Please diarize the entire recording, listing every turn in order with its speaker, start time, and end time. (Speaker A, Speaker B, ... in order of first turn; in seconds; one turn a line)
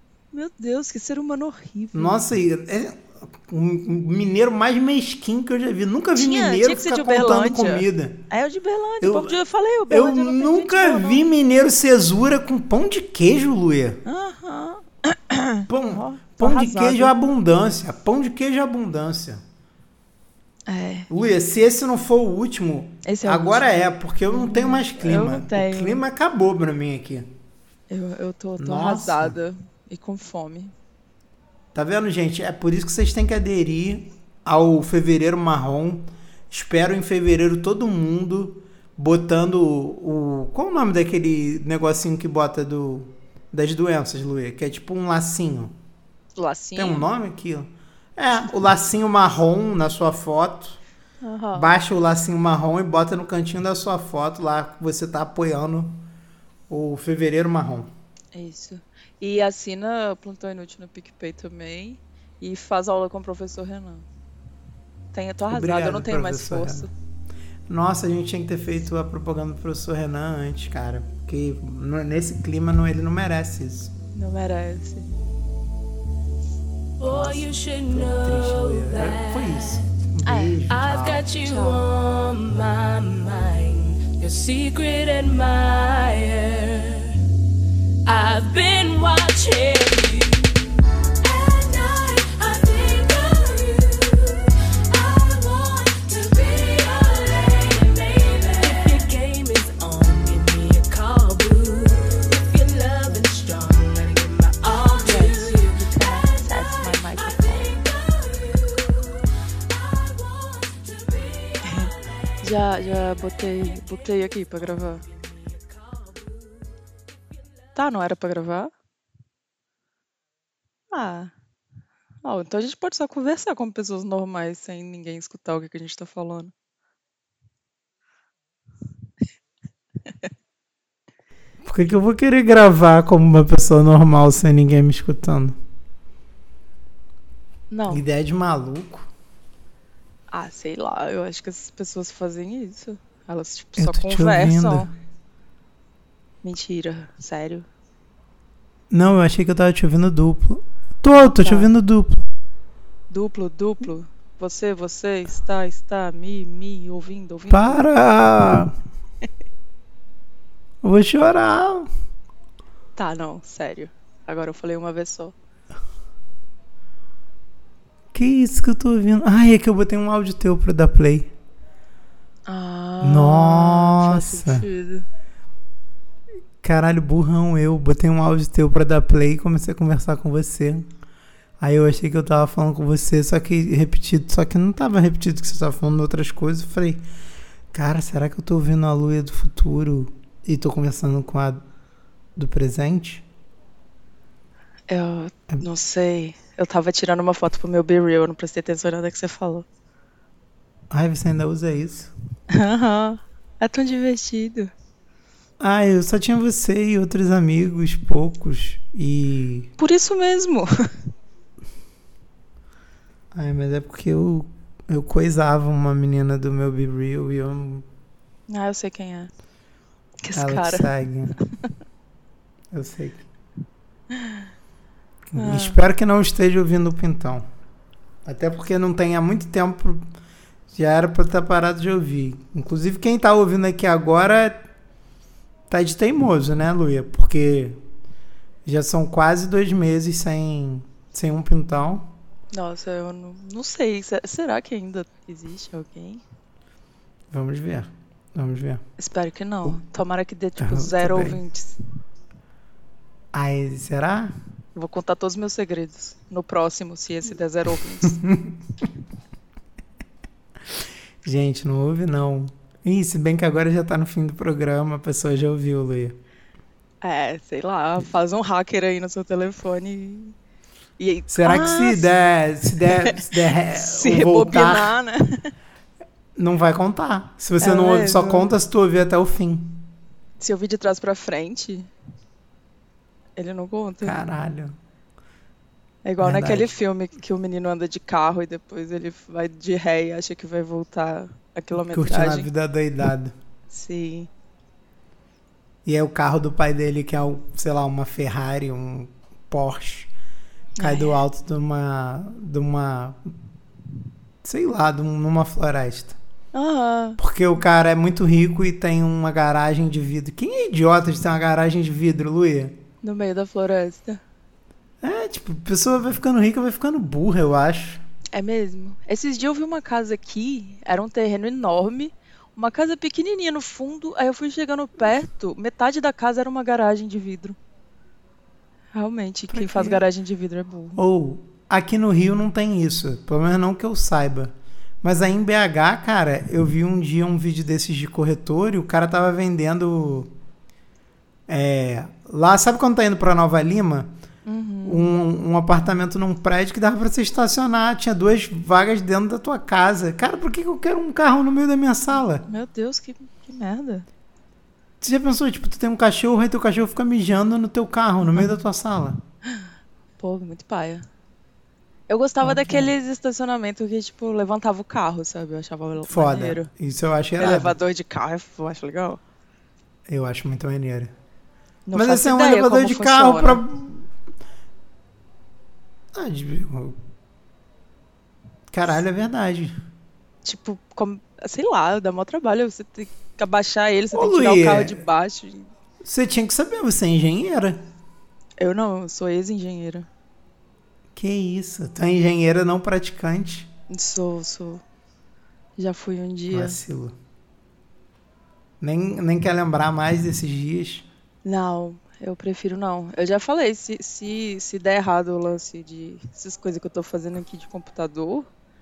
Speaker A: 0.3-2.2
Speaker B: 1.9-8.2
Speaker A: 6.2-11.3
Speaker B: 9.0-9.4
Speaker B: 9.9-14.0
Speaker A: 14.1-17.1
Speaker B: 15.7-19.4
Speaker A: 20.7-21.1
Speaker B: 21.1-27.3
Speaker A: 23.0-23.7
Speaker A: 24.3-26.0
Speaker A: 27.9-30.7
Speaker B: 28.6-29.4
Speaker B: 31.7-45.7
Speaker A: 46.4-47.1
Speaker B: 46.8-50.8
Speaker A: 51.2-51.7
Speaker B: 51.5-56.0
Speaker B: 56.7-57.9
Speaker A: 58.3-64.1
Speaker A: 65.1-66.9
Speaker B: 65.5-66.9
Speaker B: 67.7-73.9
Speaker A: 74.1-75.1
Speaker C: 77.0-79.9
Speaker B: 77.1-81.3
Speaker A: 80.2-80.6
Speaker C: 80.7-87.2
Speaker A: 81.4-81.9
Speaker C: 88.1-90.5
Speaker C: 91.2-112.0
Speaker A: 105.0-107.7
Speaker A: 111.6-111.9
Speaker A: 112.4-115.0
Speaker C: 114.8-116.6
Speaker A: 117.8-118.7
Speaker A: 120.9-121.3
Speaker A: 122.2-126.5
Speaker B: 131.7-135.6
Speaker A: 137.7-138.0
Speaker B: 137.9-139.1
Speaker A: 140.3-144.9
Speaker B: 143.8-144.9
Speaker A: 146.4-147.7
Speaker B: 148.9-152.3
Speaker A: 151.2-151.7
Speaker A: 153.1-157.8
Speaker B: 157.5-158.7
Speaker B: 160.8-161.9
Speaker A: 163.0-165.3
Speaker B: 168.1-171.3
Speaker A: 172.5-175.1
Speaker B: 173.0-174.7
Speaker B: 176.6-180.9
Speaker B: 181.6-187.0
Speaker B: 187.7-191.6
Speaker B: 192.4-193.2
Speaker A: 194.9-199.7
Speaker B: 200.9-202.1
Speaker A: 202.5-204.7
Speaker B: 205.6-209.7
Speaker A: 209.8-210.7
Speaker B: 213.3-217.9
Speaker A: 218.5-219.3
Speaker A: 220.2-220.9
Speaker B: 220.3-221.4
Speaker B: 222.7-223.3
Speaker A: 224.1-224.5
Speaker B: 225.3-227.4
Speaker A: 225.4-225.8
Speaker B: 228.3-230.1
Speaker B: 230.7-234.6
Speaker B: 235.7-237.8
Speaker B: 238.7-242.1
Speaker A: 242.5-246.2
Speaker B: 247.3-248.8
Speaker A: 249.0-251.8
Speaker B: 250.6-251.4
Speaker B: 253.3-254.3
Speaker A: 254.8-258.2
Speaker B: 258.1-258.6
Speaker B: 261.2-266.2
Speaker A: 267.0-270.4
Speaker A: 271.0-272.1
Speaker B: 271.3-274.9
Speaker A: 272.7-275.5
Speaker B: 276.4-279.9
Speaker A: 277.6-278.5
Speaker A: 280.4-281.9
Speaker A: 283.4-284.2
Speaker B: 284.0-284.8
Speaker A: 286.0-292.5
Speaker B: 286.2-286.7
Speaker B: 291.9-293.3
Speaker A: 293.7-294.3
Speaker B: 295.9-300.1
Speaker A: 300.8-301.2
Speaker B: 300.8-303.3
Speaker B: 304.4-306.2
Speaker A: 306.5-307.2
Speaker B: 307.2-312.8
Speaker A: 313.0-314.2
Speaker B: 315.0-318.0
Speaker A: 318.3-327.6
Speaker A: 328.9-331.0
Speaker B: 329.5-330.1
Speaker B: 331.0-340.3
Speaker B: 341.5-344.1
Speaker A: 344.5-345.1
Speaker B: 344.8-352.5
Speaker A: 352.5-354.1
Speaker B: 355.0-359.2
Speaker A: 360.2-361.1
Speaker A: 362.1-366.7
Speaker B: 362.4-362.9
Speaker B: 366.1-367.8
Speaker A: 367.4-369.2
Speaker B: 370.1-371.1
Speaker A: 371.9-373.6
Speaker B: 371.9-374.1
Speaker B: 376.1-377.0
Speaker B: 378.7-379.8
Speaker A: 380.4-385.7
Speaker B: 384.1-385.0
Speaker B: 386.0-387.9
Speaker A: 388.6-390.1
Speaker B: 391.2-393.7
Speaker A: 393.9-394.8
Speaker A: 395.8-396.8
Speaker B: 396.5-397.1
Speaker B: 398.8-401.1
Speaker A: 401.4-408.5